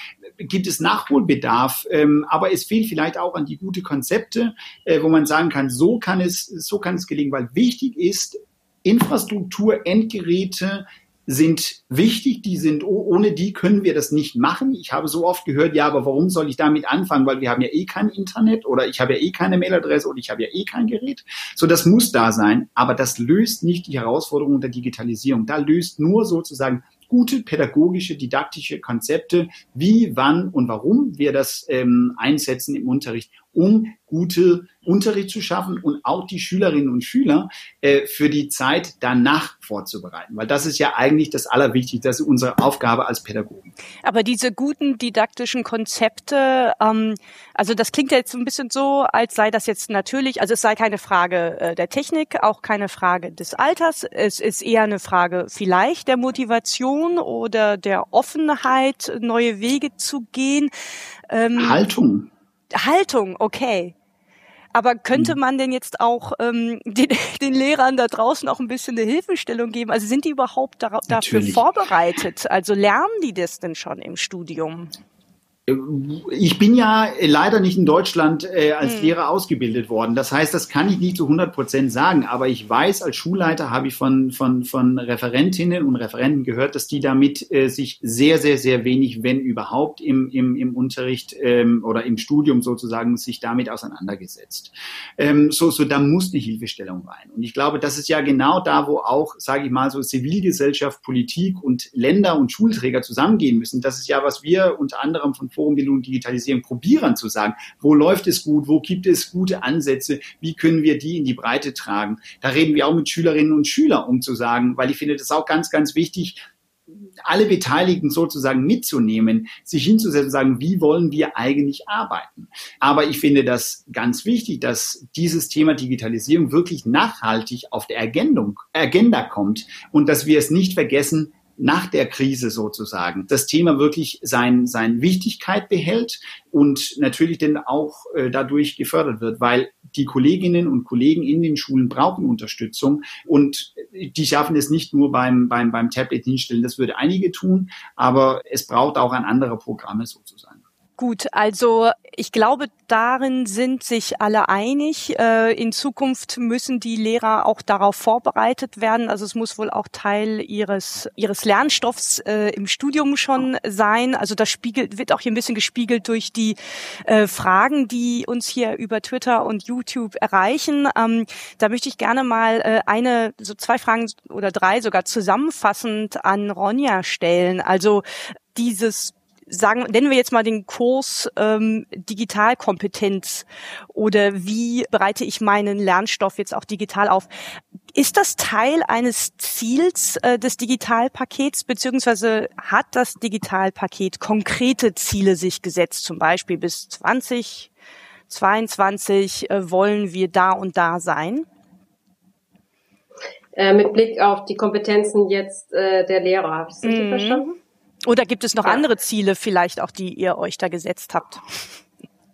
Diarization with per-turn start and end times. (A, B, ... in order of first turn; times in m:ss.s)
0:00.4-0:43.7 A
0:44.0-1:00.7 B
1:01.3-1:01.8 B
1:01.6-1:02.3 A
1:02.7-1:03.9 B
1:04.7-1:14.9 B
1:11.1-1:11.6 A
1:15.7-1:56.4 A
1:18.8-1:19.1 B
1:57.2-2:30.6 A
2:31.0-3:07.3 B
3:07.9-3:17.7 B
3:18.3-3:21.5 B
3:23.6-3:27.6 C
3:26.8-3:27.4 B
3:28.0-3:31.4 B